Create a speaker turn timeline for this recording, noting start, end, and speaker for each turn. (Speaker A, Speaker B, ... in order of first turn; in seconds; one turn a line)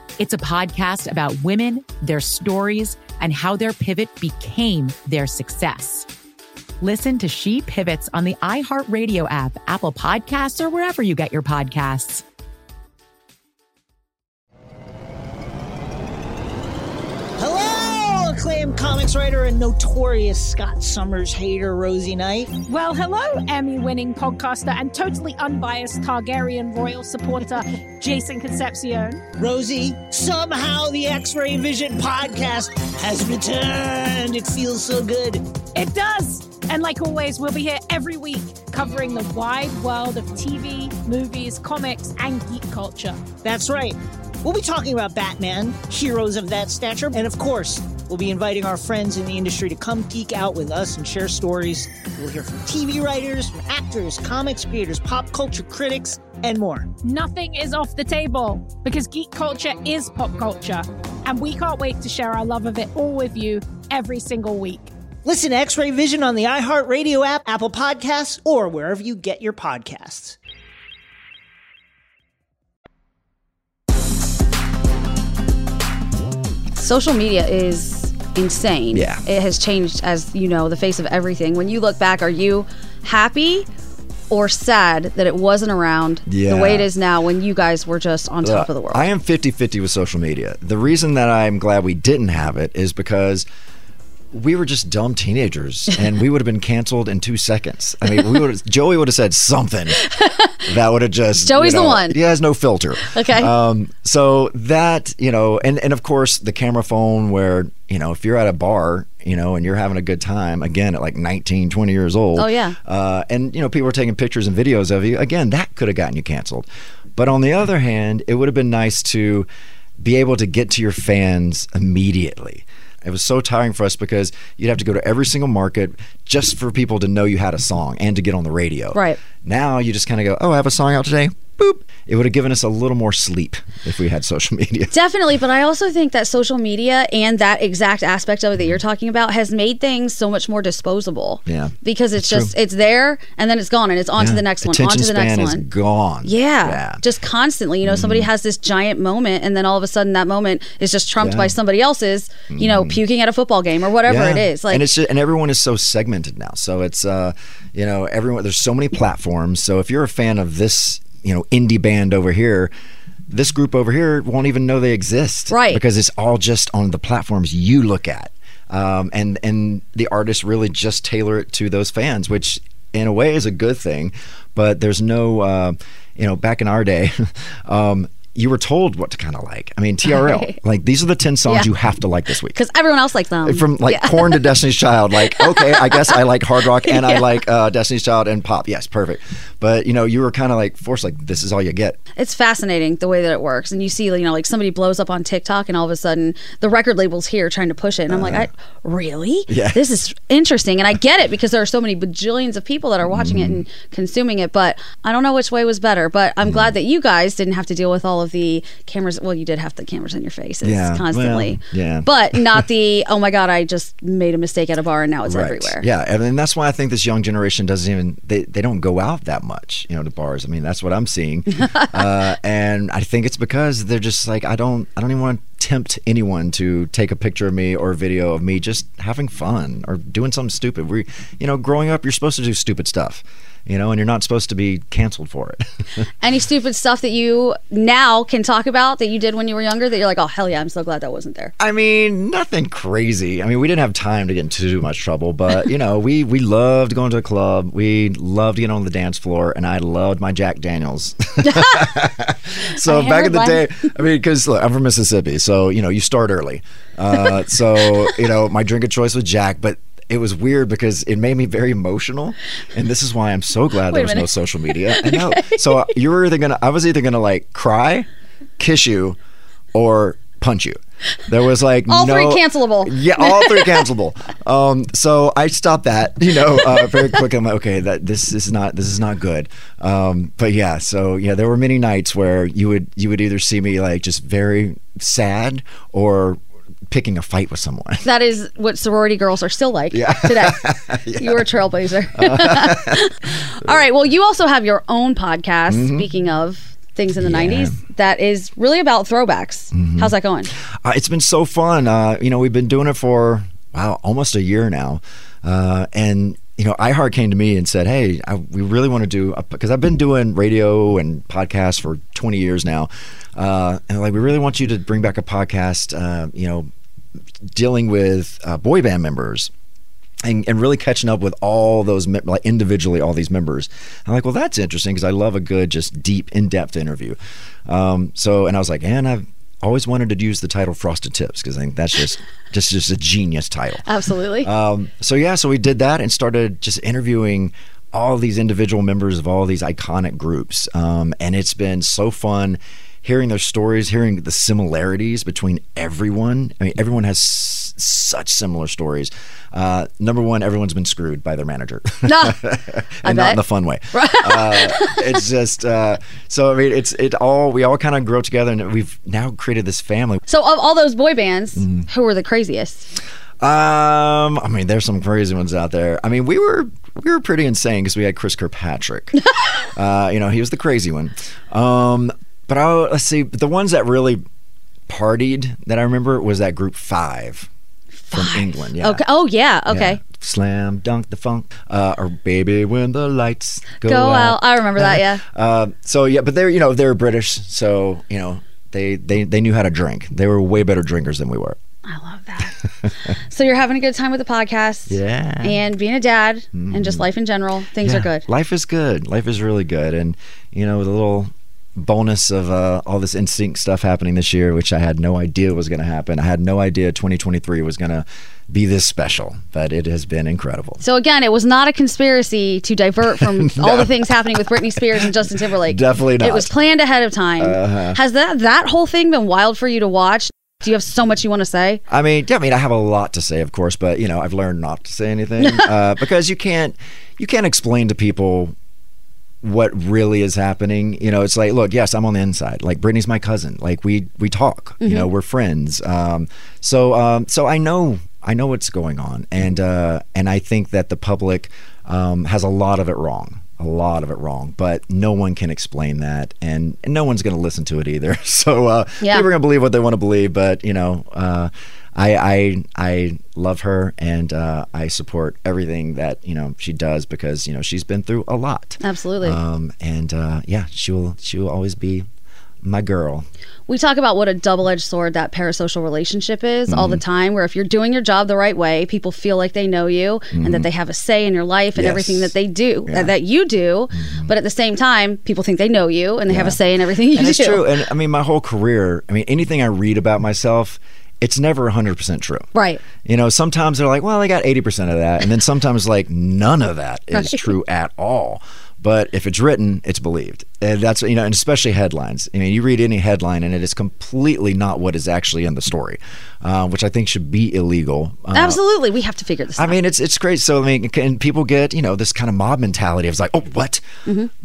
Speaker A: 0.2-6.1
Speaker A: 6.8-12.2
Speaker B: 17.4-22.5
Speaker C: 22.7-29.2
Speaker B: 29.4-35.5
Speaker C: 35.8-43.3
Speaker B: 43.4-56.9
Speaker C: 57.0-64.9
Speaker B: 65.2-70.4
Speaker D: 76.8-83.7
Speaker E: 78.9-79.2
Speaker D: 84.3-89.0
Speaker E: 86.3-86.9
Speaker E: 88.4-93.5
Speaker E: 94.3-100.0
Speaker D: 100.0-100.6
Speaker E: 100.7-116.7
Speaker D: 101.4-102.2
Speaker D: 103.0-103.5
Speaker D: 112.4-112.8
Speaker E: 117.2-119.5
Speaker E: 120.0-134.9
Speaker D: 128.9-129.2
Speaker D: 134.9-145.6
Speaker E: 141.5-142.5
Speaker E: 144.2-147.0
Speaker D: 146.2-154.8
Speaker E: 147.8-148.3
Speaker E: 151.2-151.6
Speaker E: 152.5-153.0
Speaker E: 154.0-162.7
Speaker E: 163.3-182.6
Speaker D: 165.5-165.8
Speaker D: 180.1-180.6
Speaker D: 182.6-184.5
Speaker E: 183.4-192.0
Speaker D: 185.3-186.2
Speaker D: 186.9-187.4
Speaker D: 192.2-215.8
Speaker E: 198.1-198.5
Speaker E: 199.5-199.8
Speaker E: 203.1-203.7
Speaker E: 210.6-212.7
Speaker E: 215.2-236.0
Speaker D: 236.2-241.5
Speaker E: 241.6-268.1
Speaker D: 251.4-251.9
Speaker D: 252.8-253.6
Speaker D: 263.9-264.3
Speaker D: 264.9-265.6
Speaker E: 268.6-269.2
Speaker E: 269.7-288.1
Speaker D: 271.9-273.9
Speaker D: 288.0-300.5
Speaker E: 289.9-291.5
Speaker E: 292.1-293.1
Speaker E: 295.7-296.1
Speaker E: 297.2-297.8
Speaker E: 299.7-316.7
Speaker E: 317.5-319.5
Speaker E: 320.2-333.8
Speaker D: 333.9-334.5
Speaker E: 334.4-360.2
Speaker D: 352.1-352.4
Speaker D: 353.0-353.4
Speaker D: 353.9-355.0
Speaker D: 360.3-362.9
Speaker E: 361.6-361.9
Speaker E: 363.4-374.2
Speaker E: 374.9-377.5
Speaker D: 378.1-380.0
Speaker E: 378.1-379.0
Speaker E: 379.7-391.6
Speaker D: 383.8-385.2
Speaker D: 391.9-392.5
Speaker E: 392.8-393.1
Speaker D: 393.2-398.2
Speaker E: 394.9-395.6
Speaker E: 396.5-397.1
Speaker E: 397.8-410.8
Speaker D: 410.8-421.8
Speaker E: 413.2-416.5
Speaker E: 417.4-418.0
Speaker E: 421.9-428.5
Speaker E: 429.4-462.1
Speaker D: 434.8-435.1
Speaker D: 458.8-459.4
Speaker E: 462.6-463.3
Speaker D: 463.7-477.7
Speaker E: 466.7-467.0
Speaker E: 470.3-470.7
Speaker E: 471.8-472.3
Speaker E: 472.9-473.1
Speaker E: 474.0-474.3
Speaker E: 476.3-476.6
Speaker E: 477.1-482.5
Speaker D: 482.5-482.8
Speaker E: 483.0-498.6
Speaker D: 487.1-487.4
Speaker D: 498.3-499.8
Speaker E: 499.6-503.8